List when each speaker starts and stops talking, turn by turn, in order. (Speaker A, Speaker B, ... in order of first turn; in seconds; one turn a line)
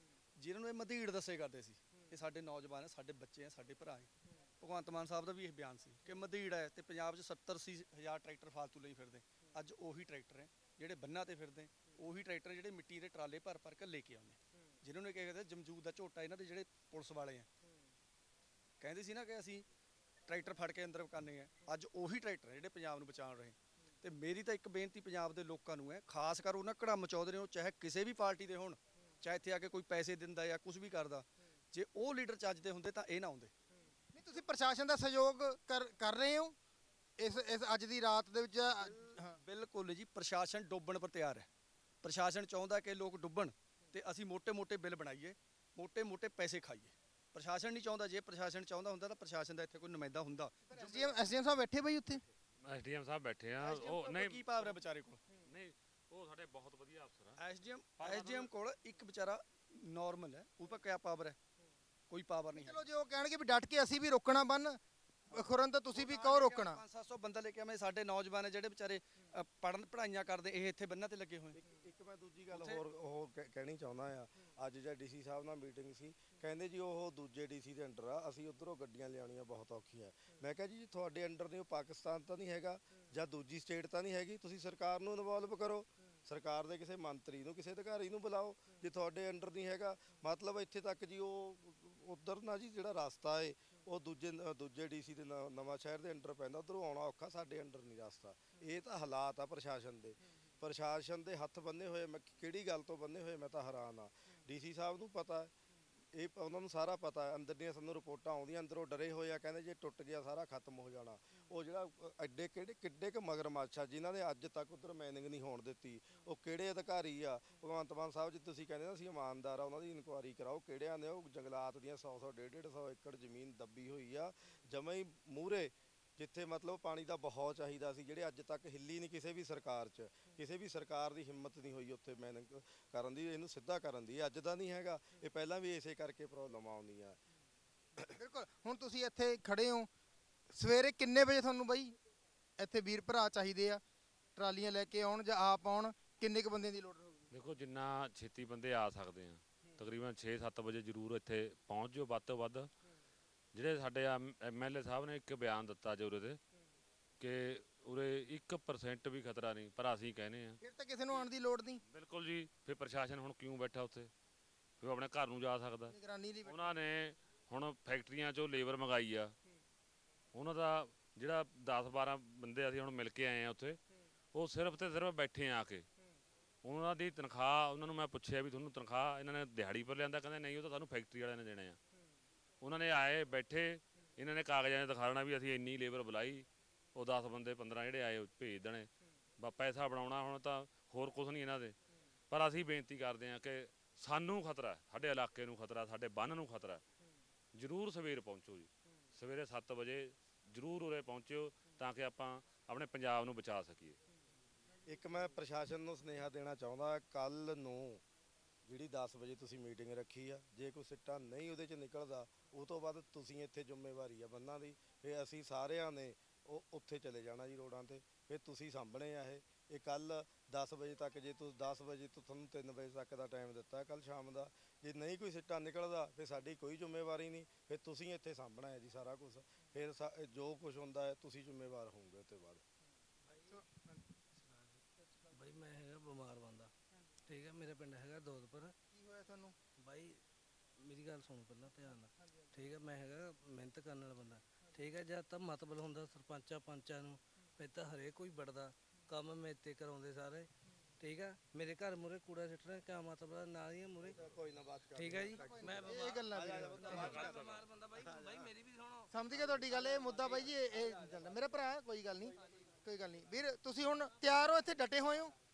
Speaker A: 0.4-17.5
Speaker A: 18.8-19.6
Speaker A: 20.3-33.5
Speaker B: 34.1-36.5
Speaker B: 37.2-39.4
Speaker A: 38.8-41.5
Speaker A: 42.0-51.0
Speaker B: 50.7-52.2
Speaker C: 52.6-54.8
Speaker A: 53.6-55.2
Speaker C: 55.4-57.4
Speaker A: 57.4-61.4
Speaker C: 58.0-58.5
Speaker A: 62.1-62.8
Speaker B: 62.5-64.8
Speaker B: 65.3-66.8
Speaker A: 65.9-71.6
Speaker D: 71.6-105.5
Speaker A: 72.5-72.8
Speaker D: 106.1-137.2
Speaker B: 138.2-139.9
Speaker B: 140.5-142.0
Speaker B: 142.6-143.8
Speaker B: 144.4-147.2
Speaker C: 147.3-152.7
Speaker C: 153.5-156.4
Speaker C: 157.2-160.6
Speaker B: 160.6-161.8
Speaker C: 161.9-164.1
Speaker C: 164.8-165.9
Speaker B: 165.9-166.7
Speaker C: 166.4-169.3
Speaker C: 170.3-173.8
Speaker C: 174.3-175.9
Speaker C: 176.6-181.8
Speaker C: 182.6-191.8
Speaker C: 192.3-196.8
Speaker C: 197.6-204.0
Speaker D: 204.9-208.0
Speaker D: 208.7-232.6
Speaker B: 233.5-234.1
Speaker E: 234.3-234.8
Speaker E: 235.4-236.7
Speaker E: 237.3-238.7
Speaker B: 238.9-239.6
Speaker E: 240.8-242.1
Speaker B: 241.9-242.7
Speaker E: 242.9-244.4
Speaker E: 245.2-250.5
Speaker E: 251.1-254.0
Speaker D: 254.1-258.5
Speaker B: 255.2-257.4
Speaker E: 256.8-259.0
Speaker B: 259.1-265.3